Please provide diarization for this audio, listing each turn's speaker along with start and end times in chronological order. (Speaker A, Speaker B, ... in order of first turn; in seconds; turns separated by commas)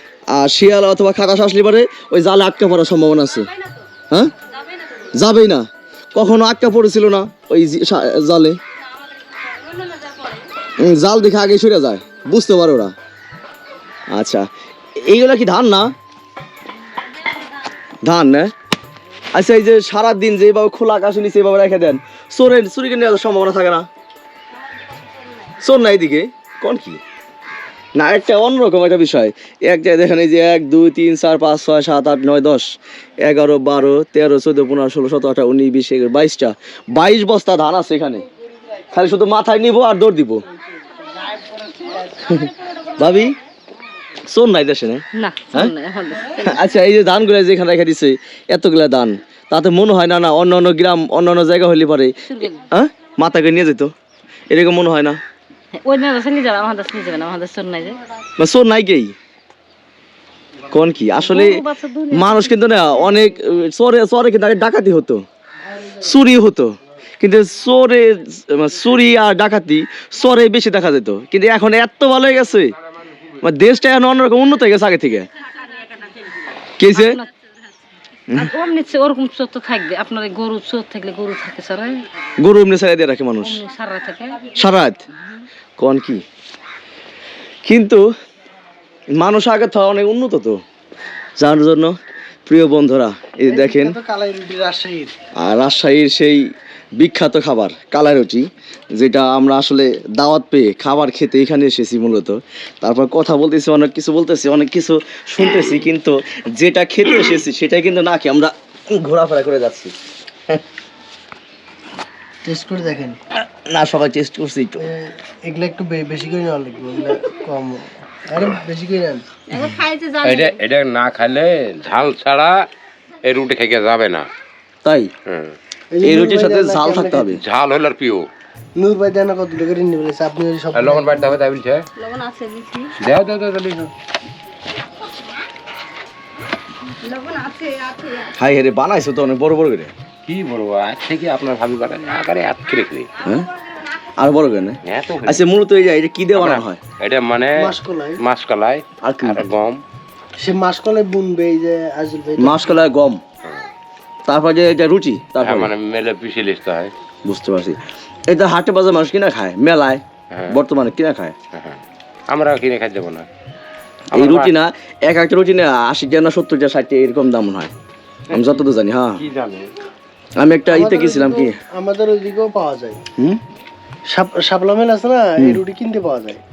Speaker A: 0.3-3.5, Speaker B: 3.4-3.9, Speaker B: 4.4-5.1, Speaker A: 5.1-8.6, Speaker B: 8.8-10.4, Speaker A: 10.8-12.9, Speaker A: 14.1-15.9, Speaker A: 18.0-18.5, Speaker A: 19.3-23.9, Speaker B: 24.6-25.6, Speaker A: 25.6-27.0, Speaker A: 27.9-32.7, Speaker A: 33.2-38.2, Speaker A: 38.9-40.4, Speaker A: 42.3-43.4, Speaker A: 44.3-45.8, Speaker C: 45.1-46.6, Speaker A: 46.4-52.1, Speaker C: 52.3-52.6, Speaker A: 52.6-53.9, Speaker A: 54.5-55.2, Speaker C: 55.8-58.0, Speaker A: 58.4-59.1, Speaker A: 60.7-65.2, Speaker C: 61.2-62.6, Speaker A: 66.0-72.7, Speaker A: 73.4-75.3, Speaker A: 76.8-77.2, Speaker C: 76.9-77.2, Speaker C: 78.3-82.0, Speaker A: 82.4-83.6, Speaker C: 83.4-84.5, Speaker A: 84.5-85.0, Speaker A: 85.8-86.2, Speaker A: 87.7-88.0, Speaker A: 89.2-90.6, Speaker A: 91.4-92.0, Speaker A: 92.5-94.0, Speaker D: 93.5-95.1, Speaker A: 95.4-96.4, Speaker A: 97.0-109.9, Speaker D: 112.5-113.2, Speaker A: 113.5-114.9, Speaker D: 114.8-119.3, Speaker B: 119.5-120.6, Speaker E: 120.2-122.6, Speaker E: 123.2-124.3, Speaker A: 124.8-125.1, Speaker E: 125.3-125.5, Speaker D: 125.9-127.3, Speaker A: 126.0-127.4, Speaker E: 127.4-128.2, Speaker D: 128.8-131.4, Speaker E: 130.7-131.9, Speaker B: 132.0-132.9, Speaker E: 133.0-133.9, Speaker B: 137.0-138.4, Speaker A: 138.4-139.9, Speaker E: 140.3-143.1, Speaker A: 143.2-143.5, Speaker A: 144.2-146.8, Speaker E: 144.9-145.5, Speaker E: 146.3-149.8, Speaker D: 147.6-148.2, Speaker A: 149.0-149.4, Speaker D: 150.4-152.8, Speaker A: 152.4-153.2, Speaker A: 154.3-155.7, Speaker E: 155.4-156.9, Speaker A: 157.2-161.3, Speaker E: 160.3-160.6, Speaker E: 161.5-161.8, Speaker E: 162.3-163.3, Speaker E: 164.1-164.5, Speaker A: 164.1-167.7, Speaker A: 168.3-169.2, Speaker E: 168.3-168.7, Speaker E: 169.2-169.7, Speaker A: 170.4-171.5, Speaker D: 170.7-173.0, Speaker D: 174.1-176.4